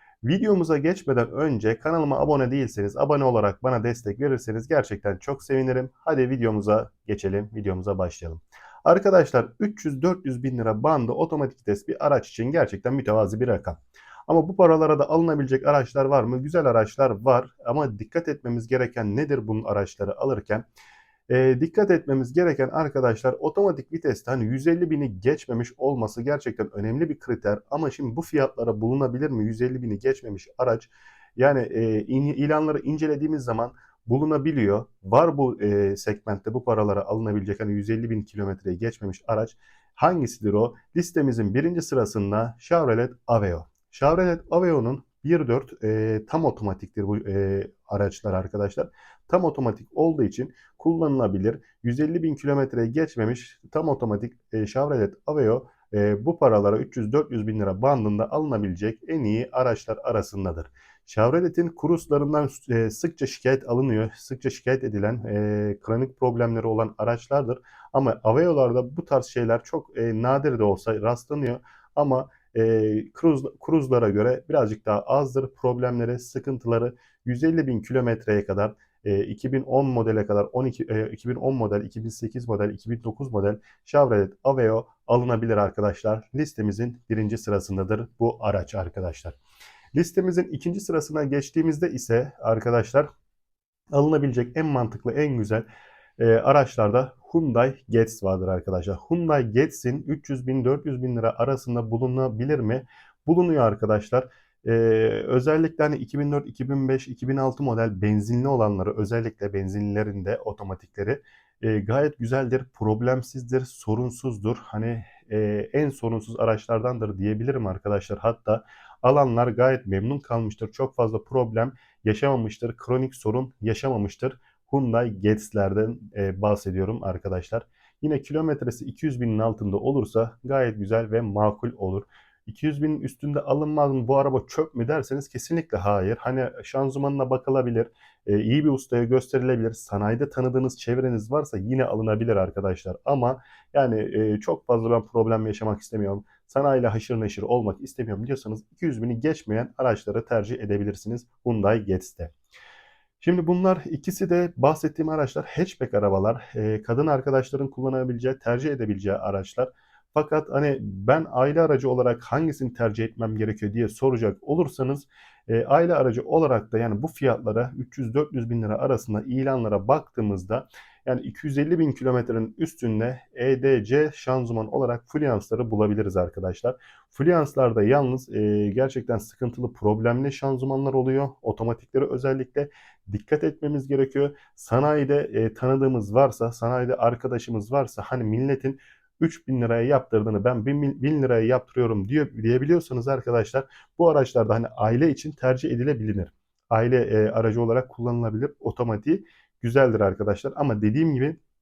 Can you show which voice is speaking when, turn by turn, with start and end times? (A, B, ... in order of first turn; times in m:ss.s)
0:00.2-0:20.6 A
0:21.3-1:29.4 A
1:29.9-1:33.1 A
1:33.9-1:35.6 A
1:36.2-2:32.3 A
2:33.2-3:21.4 A